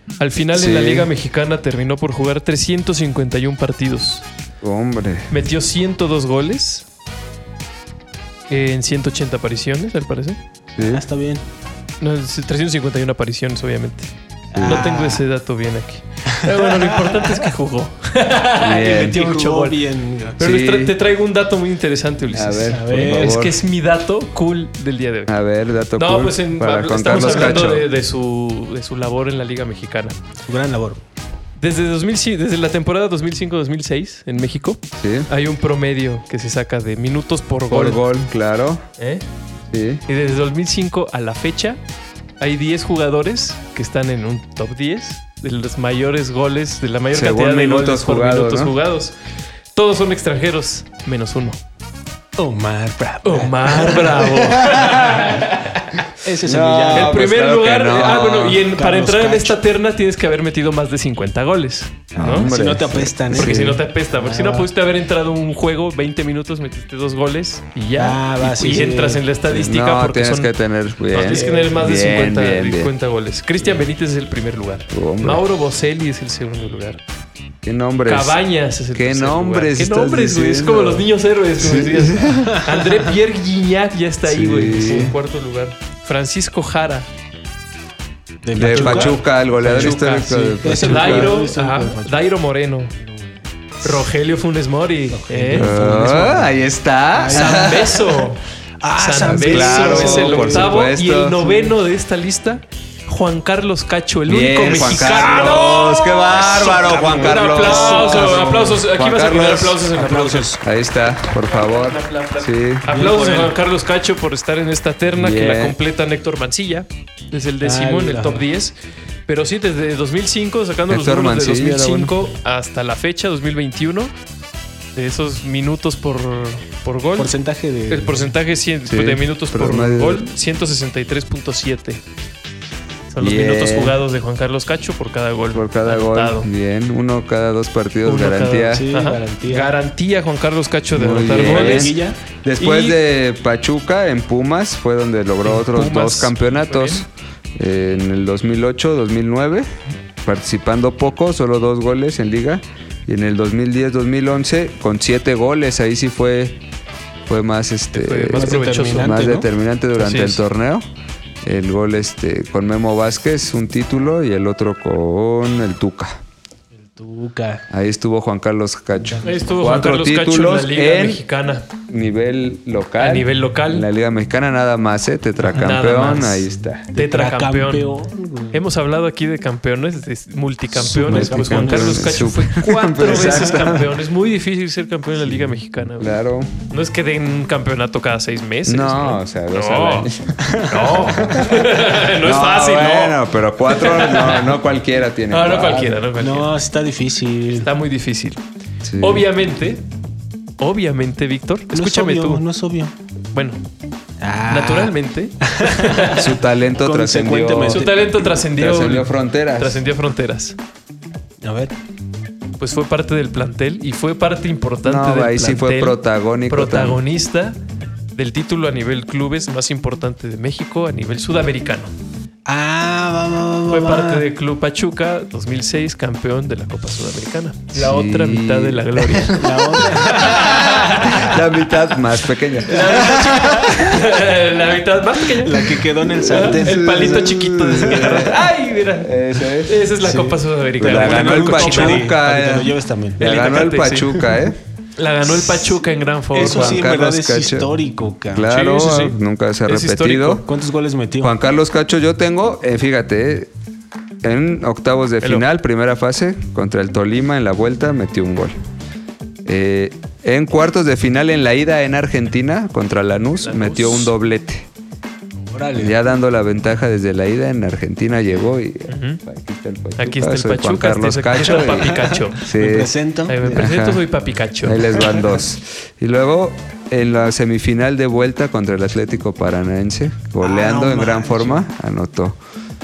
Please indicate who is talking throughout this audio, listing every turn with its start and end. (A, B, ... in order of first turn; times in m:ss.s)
0:00.2-0:04.3 A
0:00.5-0:01.1 B
0:04.6-0:05.3 B
0:05.3-0:06.9 A
0:08.5-0:10.4 A
0:10.8-0:11.0 B
0:10.8-0:11.4 C
0:12.0-0:19.8 A
0:14.5-0:15.2 C
0:14.5-0:14.8 B
0:16.5-0:17.4 C
0:18.6-0:19.2 B
0:18.8-0:20.4 C
0:20.4-0:25.3 A
0:20.4-0:21.0 B
0:22.3-0:23.6 B
0:22.7-0:23.4 C
0:25.3-0:27.9 B
0:26.0-0:30.2 A
0:27.1-0:27.6 C
0:30.5-0:31.0 C
0:31.6-0:38.0 A
0:35.0-0:35.3 B
0:37.7-0:38.8 B
0:39.0-0:39.2 A
0:39.7-0:40.0 B
0:40.1-0:41.8 A
0:42.4-0:49.2 A
0:47.1-0:48.7 B
0:49.7-0:51.6 A
0:52.4-0:55.3 C
0:53.2-0:56.0 A
0:54.4-0:55.3 B
0:56.2-0:57.2 C
0:56.4-0:58.6 B
0:56.9-1:02.5 A
0:58.7-0:59.6 C
1:02.2-1:04.7 C
1:02.2-1:03.8 B
1:03.3-1:10.5 A
1:08.0-1:09.2 C
1:09.5-1:12.9 B
1:11.1-1:17.0 A
1:11.2-1:11.8 C
1:14.9-1:15.4 B
1:17.6-1:18.4 B
1:18.0-1:27.1 A
1:18.9-1:21.0 B
1:21.6-1:22.6 B
1:24.2-1:25.2 B
1:24.8-1:25.1 C
1:28.4-1:32.2 C
1:28.6-1:31.4 B
1:28.6-1:32.9 A
1:33.0-1:33.4 C
1:33.8-1:35.8 A
1:35.1-1:36.6 C
1:35.5-1:38.0 B
1:37.2-1:38.2 C
1:37.3-1:38.4 A
1:38.8-1:40.9 C
1:38.9-1:45.9 A
1:39.2-1:41.4 B
1:41.4-1:41.7 C
1:44.3-1:49.9 B
1:44.6-1:48.7 C
1:47.1-1:50.6 A
1:49.9-1:50.6 C
1:50.6-1:52.9 B
1:51.1-1:58.8 A
1:52.8-1:53.6 C
1:55.1-1:55.8 B
1:57.6-1:58.5 C
1:59.3-2:04.1 A
2:00.9-2:02.2 B
2:05.0-2:07.3 A
2:07.2-2:08.3 C
2:07.9-2:12.0 A
2:08.9-2:10.3 B
2:13.1-2:16.5 A
2:13.2-2:14.0 B
2:15.5-2:18.9 B
2:18.0-2:21.9 A
2:18.7-2:19.8 C
2:20.9-2:29.7 B
2:21.3-2:22.2 C
2:22.6-2:23.0 A
2:25.4-2:27.0 A
2:30.2-2:36.6 B
2:37.3-2:40.9 B
2:37.9-2:39.2 A
2:38.3-2:39.5 C
2:40.0-2:40.4 A
2:41.4-2:46.2 B
2:46.8-2:47.6 C
2:47.7-2:51.2 B
2:49.0-2:49.4 C
2:49.2-2:51.7 A
2:51.9-2:56.9 B
2:53.0-2:53.9 A
2:55.4-2:57.9 A
2:56.9-2:58.6 C
2:58.5-3:06.2 A
3:00.7-3:02.1 C
3:01.1-3:03.9 B
3:06.0-3:06.5 B
3:06.7-3:10.1 A
3:08.7-3:11.4 B
3:10.4-3:11.5 C
3:10.6-3:14.6 A
3:12.2-3:15.9 B
3:15.3-3:16.5 A
3:15.8-3:17.7 C
3:17.6-3:18.4 A
3:18.8-3:19.3 B
3:19.0-3:19.8 A
3:20.6-3:22.4 A
3:21.7-3:22.9 C
3:23.3-3:23.6 A
3:24.2-3:26.2 C
3:24.5-3:26.3 A
3:26.1-3:27.8 B
3:26.7-3:28.4 C
3:27.7-3:30.6 A
3:28.6-3:29.8 B
3:31.4-3:31.7 C
3:32.6-3:37.6 A
3:34.8-3:37.0 B
3:38.2-3:41.9 A
3:42.5-3:44.2 C
3:43.7-3:51.8 A
3:47.7-3:54.0 B
3:49.3-3:51.2 C
3:52.6-4:02.1 A
3:52.9-3:53.9 C
3:55.4-3:57.2 C
3:56.3-3:59.8 B
3:57.8-3:58.4 C
4:00.0-4:03.3 C
4:00.8-4:04.6 B
4:03.2-4:04.1 A
4:05.0-4:06.9 A
4:05.3-4:05.8 C
4:06.3-4:08.5 C
4:06.3-4:07.7 B
4:08.3-4:10.5 B
4:08.5-4:10.4 A
4:10.4-4:11.4 C
4:11.2-4:13.5 B
4:14.2-4:18.6 B
4:15.2-4:15.5 A
4:19.4-4:24.7 B
4:23.4-4:24.1 A
4:25.5-4:26.0 C
4:25.8-4:32.9 B
4:28.3-4:28.6 C
4:28.9-4:29.2 A
4:30.0-4:32.4 A
4:31.6-4:33.7 C
4:33.3-4:35.0 A
4:33.4-4:34.0 B
4:34.6-4:42.4 B
4:34.9-4:35.4 C
4:40.4-4:41.7 C